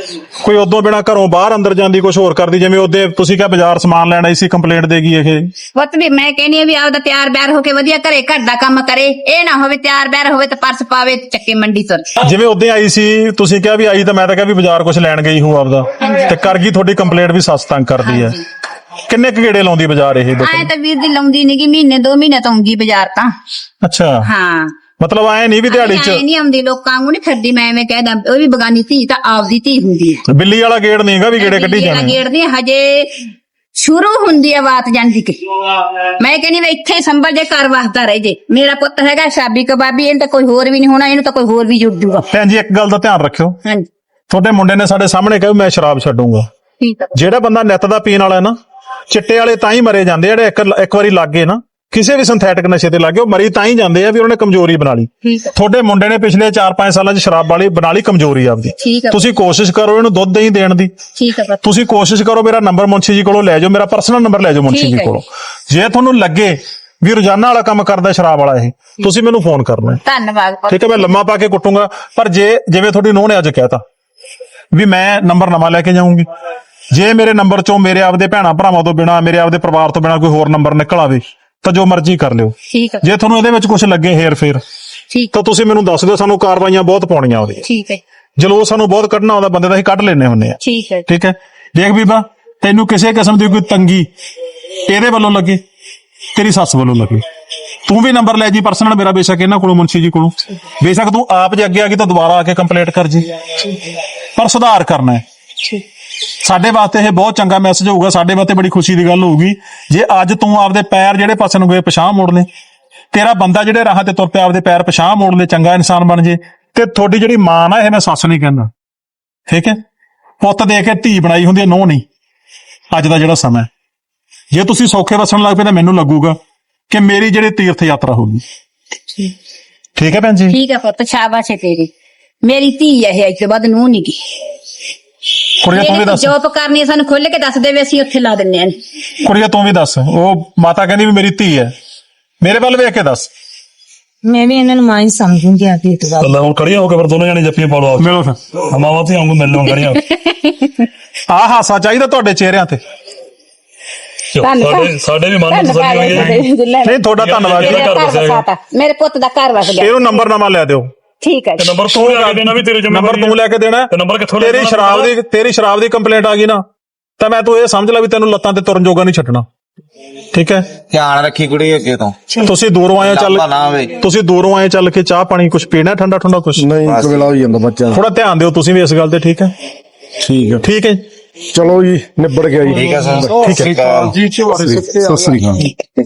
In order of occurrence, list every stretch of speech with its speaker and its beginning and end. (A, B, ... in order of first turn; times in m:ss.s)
0:00.4-0:05.5 A
0:05.7-0:12.1 B
0:12.2-0:18.4 A
0:16.0-0:16.4 B
0:18.0-0:18.4 B
0:19.1-0:20.7 A
0:20.4-0:23.3 B
0:23.8-0:24.3 A
0:24.2-0:24.7 B
0:25.0-0:26.2 A
0:25.7-0:30.2 B
0:30.3-0:32.2 A
0:31.4-0:42.3 B
0:42.3-0:43.6 A
0:44.3-0:46.5 A
0:46.8-0:47.1 B
0:47.1-0:48.6 A
0:49.1-1:00.9 A
0:55.2-0:55.5 B
0:58.8-0:59.3 B
1:01.2-1:01.6 B
1:01.6-1:10.0 A
1:04.7-1:05.1 B
1:10.0-1:11.1 B
1:10.7-1:13.8 A
1:14.7-1:16.2 A
1:16.9-1:24.6 A
1:22.7-1:23.0 B
1:25.3-1:27.6 A
1:27.6-1:28.0 B
1:28.4-1:34.1 A
1:30.6-1:31.0 B
1:34.9-1:35.6 A
1:36.3-1:37.2 A
1:37.8-1:43.3 A
1:44.4-1:45.2 A
1:46.4-1:52.5 A
1:53.1-1:58.7 A
1:59.5-1:59.8 A
2:00.4-2:02.0 A
2:02.9-2:03.7 A
2:04.5-2:06.4 A
2:06.9-2:08.4 A
2:10.0-2:10.6 A
2:10.5-2:11.9 B
2:12.4-2:14.2 B
2:15.6-2:16.3 A
2:15.7-2:18.8 B
2:19.2-2:21.7 A
2:22.4-2:23.3 A
2:24.3-2:26.3 C
2:26.2-2:30.0 D
2:29.9-2:30.9 B
2:31.3-2:32.8 A
2:34.3-2:36.4 D
2:34.4-2:40.2 B
2:36.8-2:37.9 A
2:37.2-2:38.4 D
2:39.8-2:40.9 A
2:41.2-2:41.8 B
2:41.6-2:43.4 D
2:41.9-2:46.6 A
2:43.9-2:45.1 D
2:47.2-2:49.4 A
2:50.3-2:50.6 A
2:50.9-2:52.2 E
2:52.4-2:56.6 A
2:53.0-2:53.9 E
2:56.6-2:58.0 F
2:56.9-2:57.3 E
2:57.9-2:59.5 A
3:00.2-3:00.6 F
3:00.6-3:01.0 A
3:01.5-3:03.5 F
3:02.7-3:04.2 E
3:03.4-3:03.7 A
3:04.2-3:05.7 F